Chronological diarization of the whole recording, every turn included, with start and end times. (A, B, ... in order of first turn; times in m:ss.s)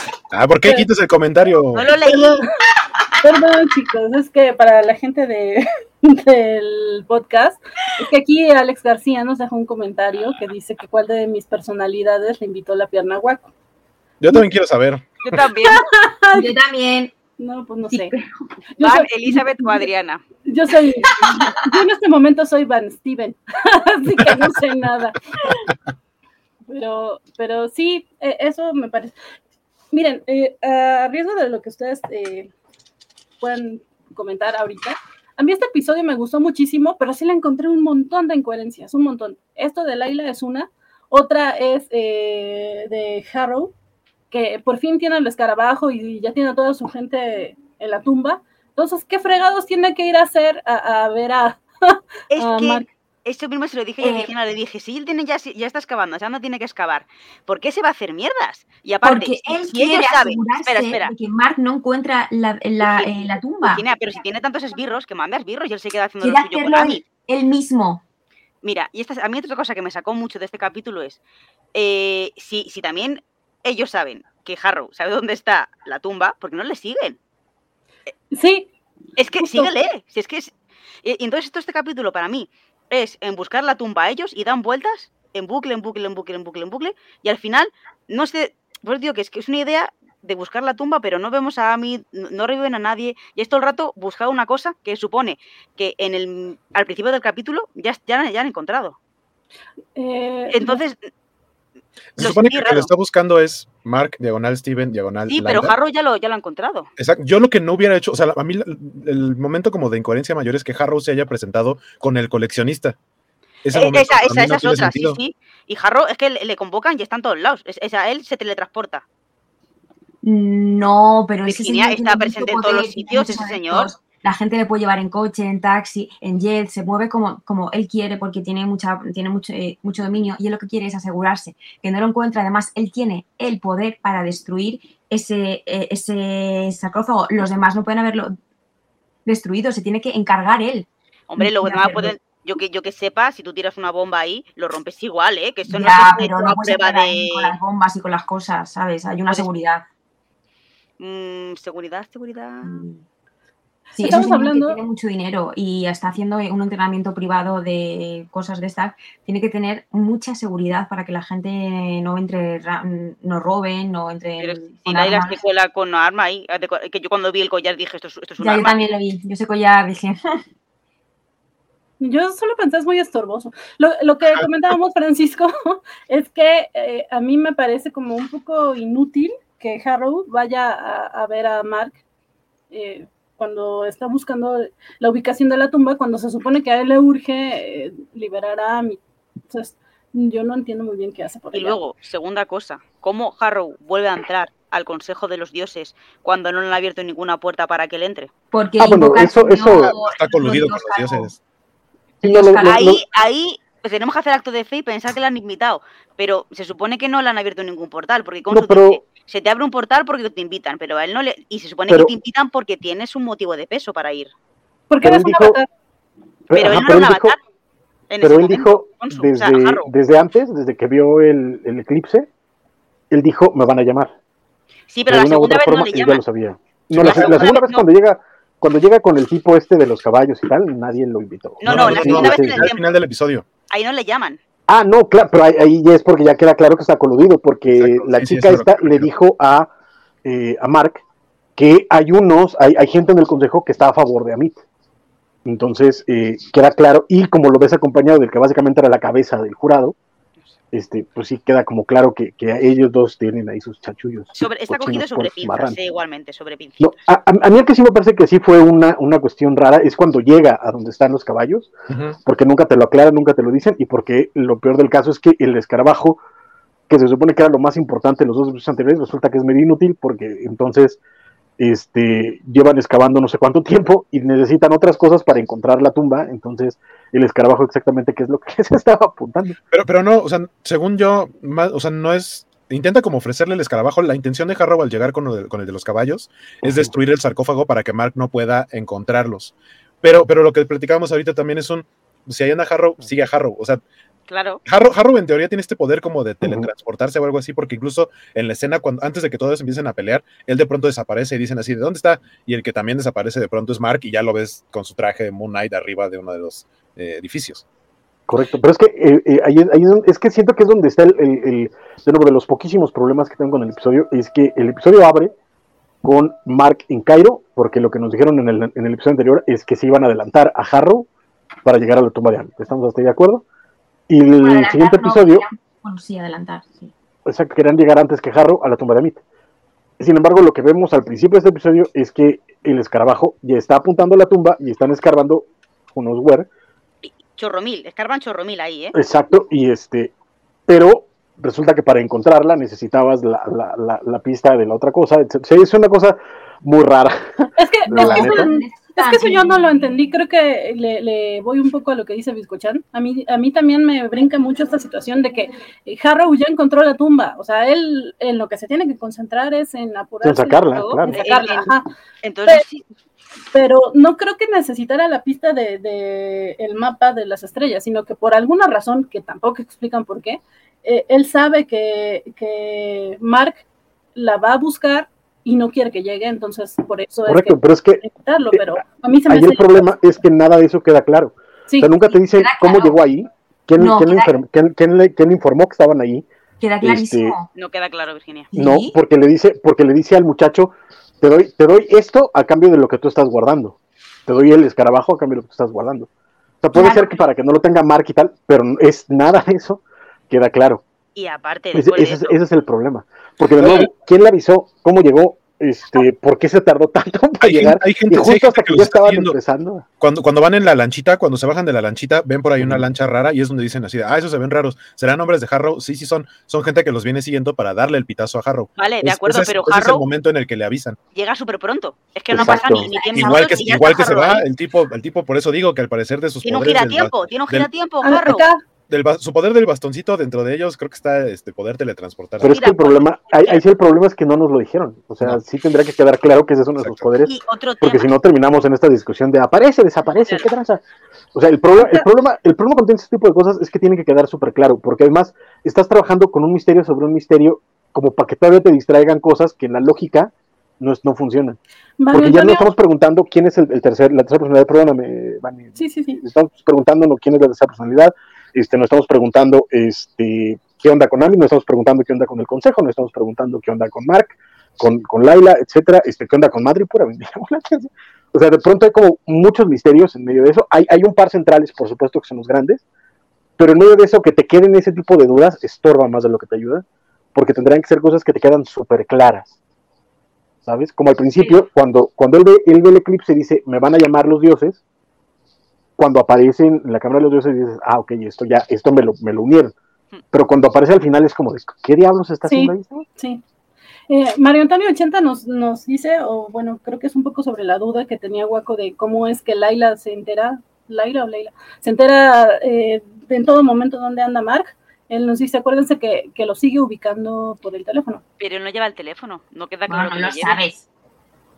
0:00.3-0:01.9 A
0:01.8-0:02.5 B
0:02.1-0:02.4 C
0:03.2-0:13.5 C
0:14.2-0:15.1 A
0:15.2-0:15.8 B
0:15.6-0:16.5 C
0:16.3-0:17.1 D
0:17.4-0:18.2 C
0:17.9-0:18.2 D
0:18.8-0:19.9 C
0:18.8-0:20.2 B
0:20.4-0:25.6 C
0:21.0-0:21.8 D
0:26.7-0:29.2 C
0:29.9-0:32.5 C
0:33.4-0:43.7 C
0:44.3-0:52.9 C
0:52.3-1:01.1 B
0:54.0-0:54.3 D
0:59.0-1:03.8 D
1:02.8-1:07.0 B
1:06.2-1:08.0 D
1:08.6-1:11.2 B
1:11.8-1:17.2 B
1:18.3-1:18.7 C
1:19.2-1:20.5 B
1:19.4-1:19.7 C
1:21.0-1:39.0 B
1:40.0-1:40.8 C
1:40.5-1:41.0 B
1:42.2-1:45.7 A
1:42.2-1:42.9 B
1:45.3-1:46.9 B
1:47.0-1:53.0 A
1:53.6-1:55.2 A
1:53.7-1:59.0 B
2:00.2-2:18.4 D
2:01.5-2:03.9 B
2:19.3-2:20.9 D
2:21.3-2:27.6 B
2:21.4-2:22.2 D
2:25.7-2:29.8 D
2:31.0-2:32.8 B
2:32.6-2:33.0 D
2:33.9-2:34.8 C
2:34.0-2:45.4 D
2:44.4-2:48.8 B
2:48.4-2:50.4 D
2:52.0-3:02.0 C
3:02.7-3:11.8 C
3:11.5-3:18.3 B
3:18.5-3:21.3 D
3:18.8-3:19.9 E
3:19.8-3:21.4 A
3:22.2-3:23.0 D
3:22.2-3:23.0 E
3:22.6-3:34.3 B
3:28.5-3:29.0 E
3:34.9-3:35.7 C
3:35.0-3:35.6 E
3:36.5-3:37.4 E
3:36.5-3:37.4 B
3:38.1-3:39.9 B
3:38.2-3:42.3 E
3:43.1-3:44.1 E
3:44.9-3:46.2 B
3:45.1-3:52.7 E
3:46.9-3:47.5 A
3:46.9-3:47.9 B
3:51.6-3:52.9 B
3:51.6-3:53.4 A
3:53.7-3:54.4 B
3:54.7-3:59.7 E
3:57.7-3:59.1 A
4:00.2-4:01.0 E
4:01.6-4:04.6 E
4:05.4-4:10.0 E
4:10.7-4:15.8 E
4:14.4-4:17.1 B
4:16.8-4:21.7 E
4:21.9-4:22.2 A
4:22.2-4:26.2 E
4:26.9-4:31.0 E
4:31.6-4:39.6 E
4:39.7-4:53.8 A
4:54.3-4:54.6 B
4:54.6-5:07.6 A
4:56.4-4:56.7 E
5:08.3-5:15.3 E
5:16.0-5:21.1 E
5:21.6-5:23.4 E
5:24.1-5:25.4 E
5:24.4-5:26.9 D
5:27.2-5:29.2 E
5:30.0-5:36.5 E
5:37.0-5:38.9 B
5:38.9-5:40.1 E
5:40.7-5:48.5 E
5:47.6-6:01.9 C
5:47.9-5:49.6 D
6:00.2-6:01.2 E
6:00.8-6:01.7 B
6:02.2-6:02.8 B
6:03.5-6:13.6 C
6:14.2-6:20.0 C
6:17.3-6:26.3 E
6:21.7-6:21.9 C
6:22.1-6:23.0 D
6:23.8-6:24.3 D
6:26.6-6:27.5 D
6:26.8-6:27.4 E
6:27.6-6:28.5 B
6:28.5-6:29.0 D
6:28.6-6:36.1 E
6:36.6-6:40.8 E
6:36.7-6:37.2 D
6:41.2-6:42.4 B
6:41.7-6:49.8 E
6:43.6-6:43.9 A
6:47.4-6:49.4 A
6:50.0-7:01.0 A
6:52.6-6:52.8 E
6:58.8-7:00.0 B
7:01.2-7:04.4 B
7:02.3-7:02.9 E
7:02.3-7:03.8 D
7:03.2-7:07.7 A
7:06.4-7:08.5 B
7:08.0-7:08.6 C
7:08.9-7:12.6 A
7:12.4-7:20.8 E
7:12.5-7:13.6 B
7:16.8-7:17.1 A
7:17.3-7:18.1 B
7:21.3-7:31.6 E
7:21.8-7:22.0 C
7:32.0-7:32.7 C
7:32.1-7:52.8 E
7:35.8-7:36.2 C
7:53.6-7:56.8 E
7:57.4-7:59.5 E
8:00.6-8:04.8 E
8:01.4-8:01.7 B
8:06.0-8:09.7 E
8:10.3-8:13.1 E
8:12.4-8:13.4 C
8:14.1-8:28.2 C
8:28.4-8:30.7 B
8:29.9-8:30.8 D